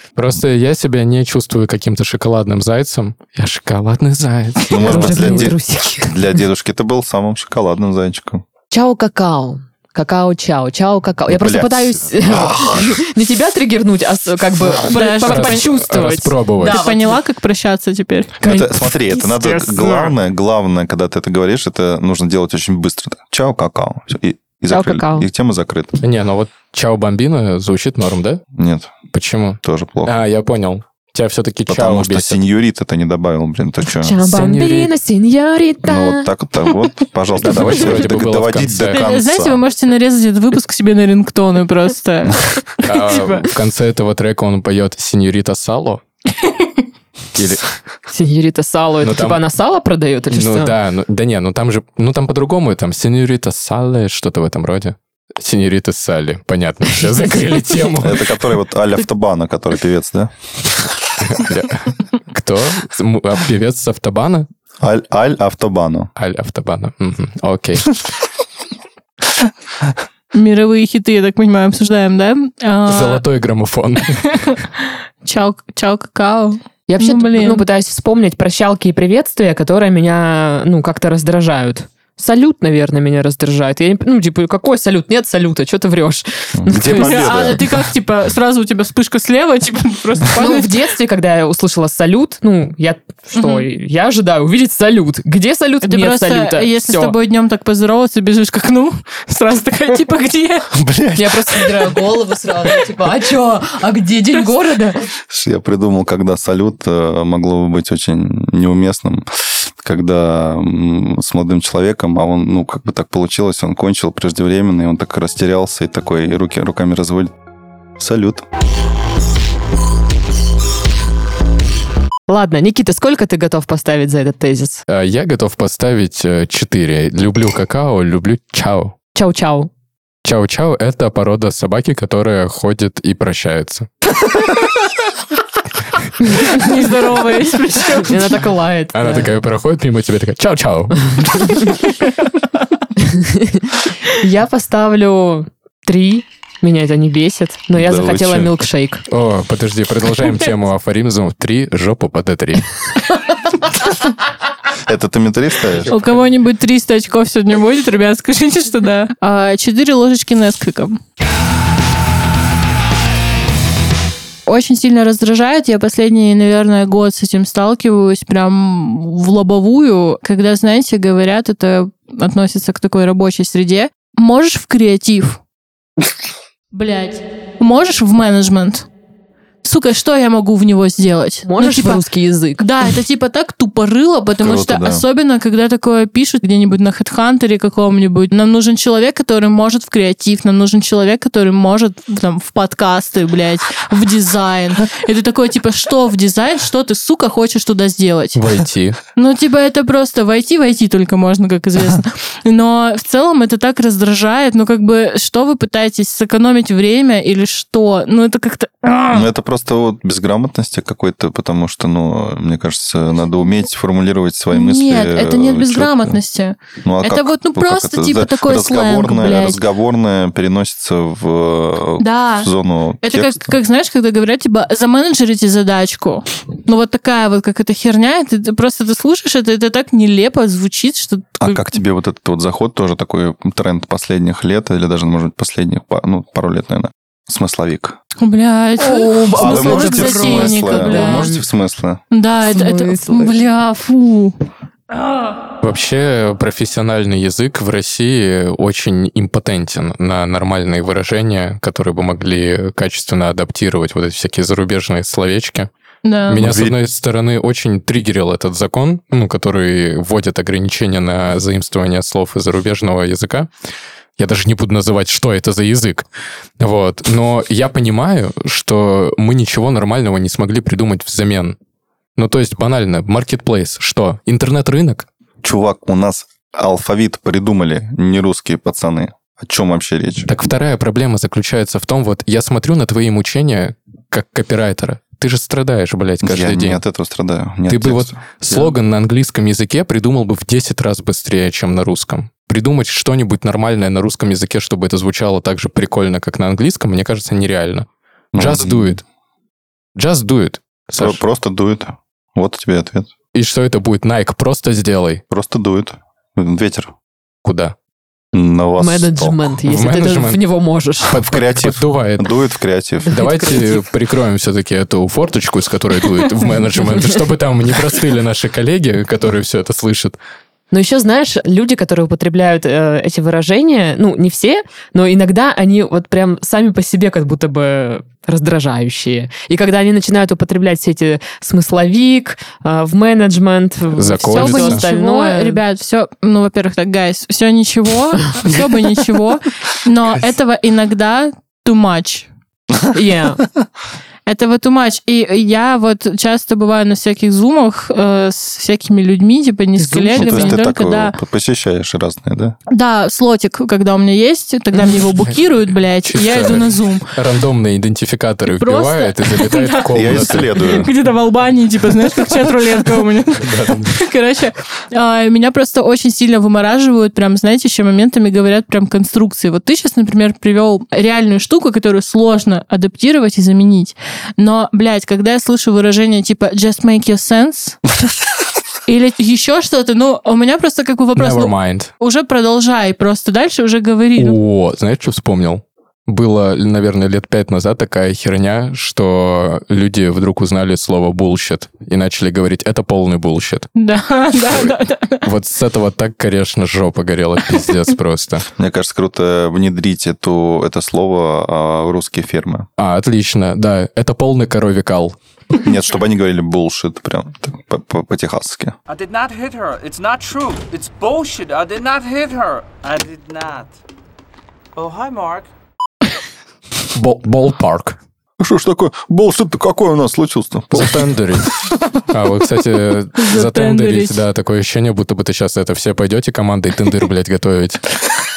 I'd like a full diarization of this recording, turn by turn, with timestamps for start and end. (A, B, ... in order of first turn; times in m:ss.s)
0:00.2-0:05.4 A
0:04.7-0:08.4 B
0:04.8-0:06.2 C
0:08.7-0:17.2 C
0:11.3-0:13.0 B
0:14.9-0:15.7 D
0:15.2-0:16.8 A
0:16.6-0:18.3 D
0:18.4-0:20.1 C
0:18.4-0:26.0 B
0:24.7-0:25.3 C
0:26.0-0:28.4 A
0:28.5-0:28.9 B
0:29.1-0:32.4 A
0:29.6-0:30.1 B
0:31.7-0:34.2 B
0:33.9-0:36.3 C
0:34.3-0:34.9 A
0:35.8-0:39.6 B
0:37.4-0:39.0 A
0:38.9-0:43.5 D
0:42.8-0:46.0 A
0:46.4-0:46.7 D
0:47.3-0:47.7 A
0:48.1-0:50.7 C
0:49.0-0:49.4 A
0:50.3-0:58.4 A
0:58.0-1:00.3 B
1:01.2-1:04.5 A
1:04.8-1:06.1 B
1:06.2-1:08.0 A
1:10.3-1:13.2 D
1:12.9-1:14.5 A
1:14.4-1:17.6 D
1:16.9-1:27.4 C
1:26.5-1:27.6 B
1:26.8-1:30.7 D
1:30.4-1:37.1 C
1:33.3-1:33.6 D
1:35.8-1:40.7 D
1:40.7-1:41.7 B
1:41.1-1:45.0 C
1:45.3-1:57.3 B
1:58.0-1:58.4 B
2:02.3-2:04.8 C
2:04.9-2:08.9 A
2:09.1-2:09.7 C
2:10.2-2:13.9 A
2:16.4-2:18.5 D
2:18.0-2:19.3 C
2:18.9-2:21.8 A
2:23.0-2:29.0 C
2:27.7-2:28.6 B
2:29.1-2:32.8 A
2:34.8-2:35.9 B
2:35.9-2:41.0 D
2:44.4-2:55.4 D
2:56.7-2:58.9 D
2:59.6-3:02.0 D
3:01.4-3:02.6 C
3:02.6-3:18.4 D
3:04.4-3:05.0 B
3:18.4-3:19.0 A
3:19.2-3:29.2 D
3:29.1-3:36.2 B
3:34.5-3:39.6 D
3:36.8-3:43.4 B
3:42.0-3:42.5 D
3:43.0-3:51.6 D
3:51.4-3:58.0 B
3:58.2-4:01.3 D
3:58.8-4:01.4 C
3:59.3-4:02.0 B
4:02.1-4:04.4 D
4:02.5-4:03.3 C
4:05.6-4:15.7 A
4:16.0-4:16.4 D
4:16.3-4:23.5 A
4:16.3-4:16.8 B
4:24.2-4:26.0 A
4:26.6-4:31.6 A
4:32.2-4:35.0 A
4:35.4-4:40.3 B
4:40.3-4:46.8 A
4:46.2-4:48.7 B
4:47.7-4:59.0 A
4:58.3-4:59.0 B
5:00.0-5:01.2 A
5:01.0-5:03.1 B
5:03.3-5:05.2 A
5:05.3-5:06.9 B
5:07.4-5:07.7 A
5:08.3-5:09.4 B
5:08.8-5:11.1 C
5:09.7-5:10.4 A
5:11.1-5:12.3 A
5:11.1-5:13.1 B
5:13.1-5:13.8 C
5:13.1-5:20.2 A
5:20.7-5:35.6 C
5:33.9-5:34.8 A
5:34.3-5:42.3 D
5:42.9-5:43.4 C
5:44.2-5:51.1 D
5:49.8-5:50.6 C
5:50.1-5:52.6 B
5:52.7-5:57.1 D
5:54.7-5:55.0 C
5:55.2-5:55.4 A
5:56.0-6:00.7 A
5:58.5-6:17.8 D
5:59.9-6:00.9 B
6:03.4-6:04.0 A
6:18.8-6:24.4 D
6:21.2-6:21.9 A
6:24.2-6:33.7 A
6:33.8-6:35.2 D
6:34.5-6:38.5 A
6:38.6-6:42.6 B
6:42.8-6:45.2 A
6:45.6-6:48.8 B
6:48.9-6:53.8 E
6:54.8-6:55.5 E
6:56.9-6:58.0 A
6:58.4-7:01.2 B
7:00.7-7:01.6 A
7:02.1-7:07.8 A
7:03.2-7:04.2 D